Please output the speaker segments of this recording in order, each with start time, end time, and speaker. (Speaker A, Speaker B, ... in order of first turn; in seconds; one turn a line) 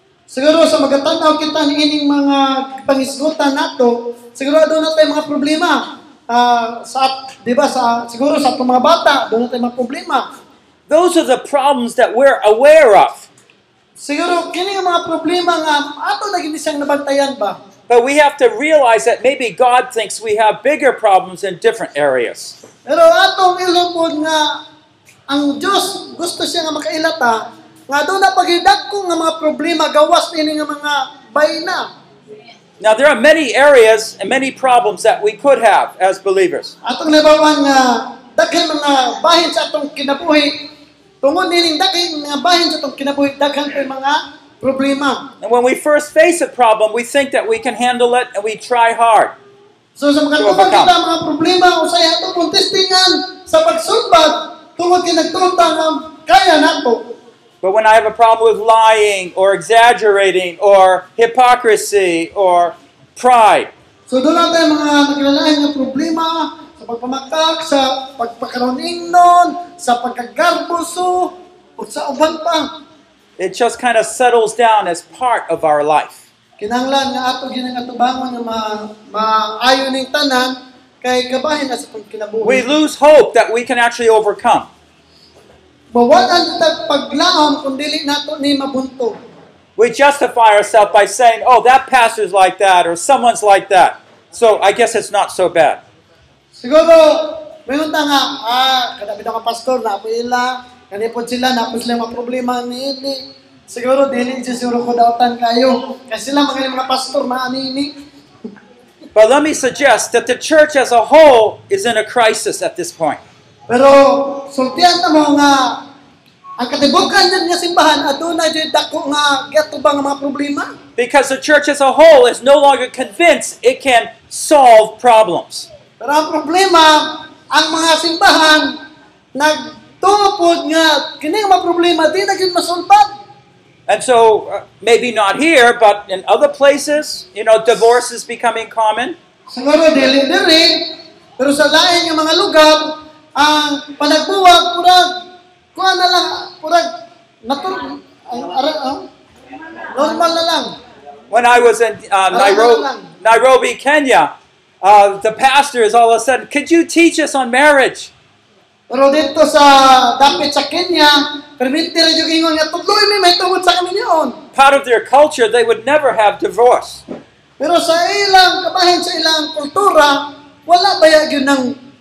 Speaker A: 0.3-10.3
Speaker B: 10.9-13.3
Speaker A: 14.0-17.6
Speaker B: 17.9-22.6
Speaker A: 22.8-24.6
Speaker A: 25.3-31.9
Speaker B: 32.8-36.7
Speaker A: 36.8-40.7
Speaker A: 41.2-45.3
Speaker B: 45.4-49.3
Speaker A: 50.0-57.1
Speaker B: 50.4-50.9
Speaker B: 57.6-63.7
Speaker A: 64.1-72.7
Speaker B: 73.4-76.2
Speaker A: 76.6-82.6
Speaker B: 82.4-84.7
Speaker A: 85.9-89.2
Speaker B: 89.8-95.8
Speaker A: 96.6-107.9
Speaker B: 109.1-113.2
Speaker A: 113.7-115.8
Speaker A: 116.6-120.8
Speaker B: 121.0-125.7
Speaker A: 126.0-128.8
Speaker A: 129.3-133.1
Speaker B: 133.9-139.2
Speaker A: 139.5-145.2
Speaker A: 145.7-146.9
Speaker A: 147.4-149.1
Speaker A: 149.9-150.8
Speaker B: 151.3-158.1
Speaker A: 152.3-153.1
Speaker A: 158.9-164.4
Speaker B: 164.5-167.0
Speaker A: 167.6-171.8